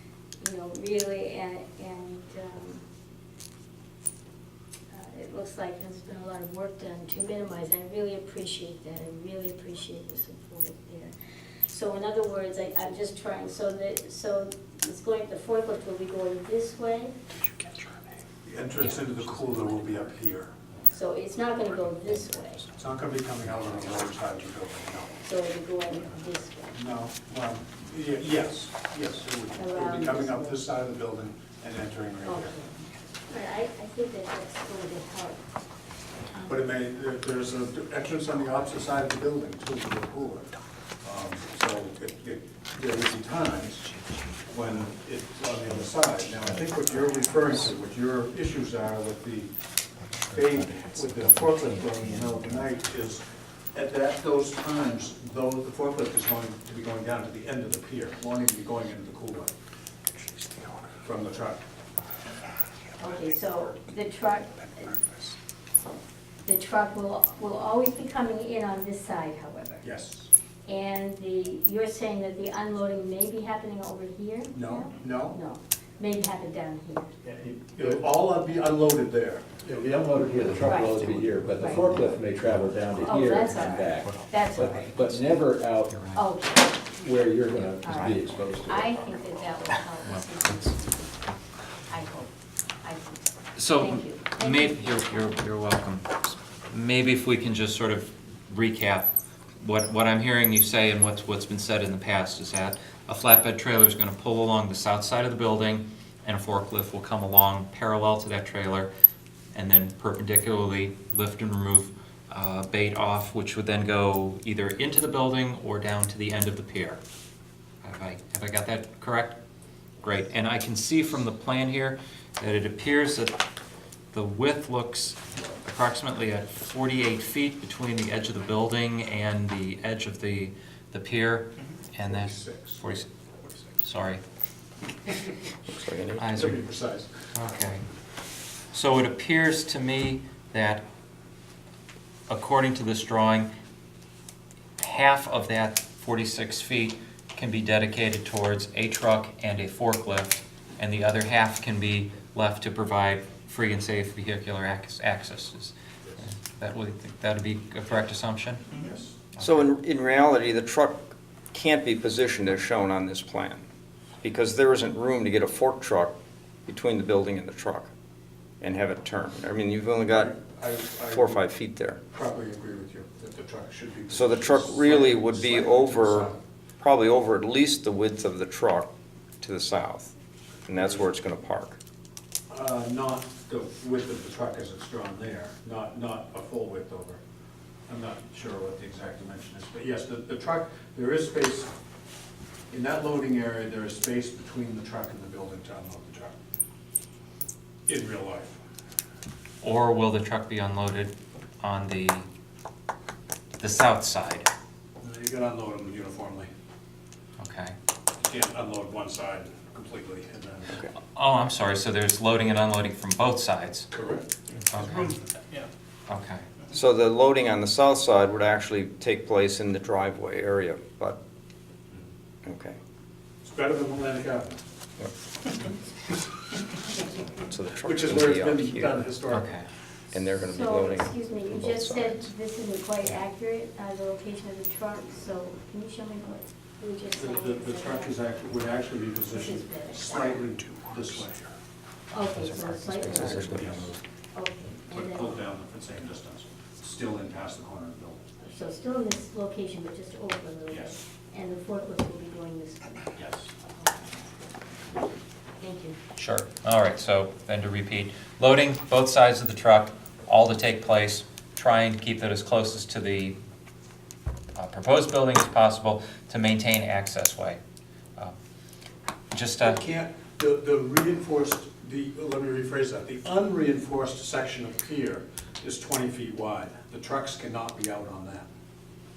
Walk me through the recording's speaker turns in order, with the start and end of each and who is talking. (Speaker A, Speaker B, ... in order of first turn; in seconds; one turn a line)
Speaker A: 0.4-2.8
Speaker A: 4.9-11.1
Speaker A: 11.7-17.1
Speaker B: 18.4-20.5
Speaker A: 20.9-22.7
Speaker B: 22.7-25.1
Speaker A: 25.2-26.8
Speaker B: 26.7-32.6
Speaker A: 29.5-30.6
Speaker A: 32.2-35.4
Speaker A: 36.3-36.7
Speaker B: 36.5-43.9
Speaker C: 43.9-44.4
Speaker B: 44.5-49.5
Speaker C: 50.0-52.8
Speaker B: 50.3-59.5
Speaker B: 61.0-61.6
Speaker A: 63.0-65.1
Speaker A: 66.4-69.9
Speaker B: 69.8-70.3
Speaker A: 70.7-77.1
Speaker B: 74.5-75.4
Speaker B: 77.2-79.5
Speaker D: 79.6-85.9
Speaker A: 80.6-81.1
Speaker C: 80.9-82.1
Speaker A: 81.6-81.8
Speaker A: 83.0-85.0
Speaker C: 84.0-85.2
Speaker C: 85.9-86.2
Speaker A: 86.2-86.9
Speaker D: 87.0-88.9
Speaker A: 87.8-95.3
Speaker C: 87.8-88.3
Speaker C: 90.0-90.7
Speaker C: 93.5-108.9
Speaker C: 109.5-117.0
Speaker C: 117.8-119.4
Speaker C: 120.0-123.4
Speaker C: 124.1-133.1
Speaker B: 132.0-133.7
Speaker C: 133.8-134.2
Speaker E: 135.7-136.3
Speaker C: 136.2-136.6
Speaker B: 136.3-137.1
Speaker C: 137.3-137.8
Speaker C: 138.7-140.8
Speaker C: 142.3-143.5
Speaker C: 144.8-158.8
Speaker B: 158.8-159.2
Speaker C: 159.3-159.7
Speaker E: 159.4-163.7
Speaker E: 164.2-167.9
Speaker E: 168.6-170.3
Speaker B: 170.1-171.4
Speaker E: 171.1-172.0
Speaker B: 172.1-176.4
Speaker E: 174.1-180.1
Speaker E: 180.7-181.8
Speaker B: 180.7-181.1
Speaker B: 182.5-187.2
Speaker B: 187.9-191.7
Speaker B: 192.7-196.4
Speaker B: 197.9-198.6
Speaker C: 199.6-202.3
Speaker C: 203.6-204.5
Speaker B: 205.0-206.5
Speaker C: 207.4-207.8
Speaker B: 208.2-210.8
Speaker C: 211.1-213.9
Speaker B: 213.9-215.1
Speaker C: 214.6-215.2
Speaker C: 216.1-216.4
Speaker E: 216.7-221.2
Speaker E: 222.4-222.8
Speaker B: 223.4-224.6
Speaker E: 227.5-229.1
Speaker B: 227.8-229.5
Speaker C: 229.3-229.7
Speaker E: 230.1-232.3
Speaker A: 230.4-238.2
Speaker B: 237.1-241.5
Speaker A: 239.3-240.4
Speaker A: 242.1-243.7
Speaker C: 242.1-244.0
Speaker B: 243.1-244.0
Speaker A: 244.3-245.4
Speaker B: 244.9-248.2
Speaker A: 248.4-253.2
Speaker B: 250.7-251.0
Speaker B: 253.2-253.5
Speaker A: 253.8-254.2
Speaker A: 255.6-256.0
Speaker C: 256.2-263.4
Speaker C: 264.6-267.6
Speaker C: 269.3-269.8
Speaker B: 269.6-278.5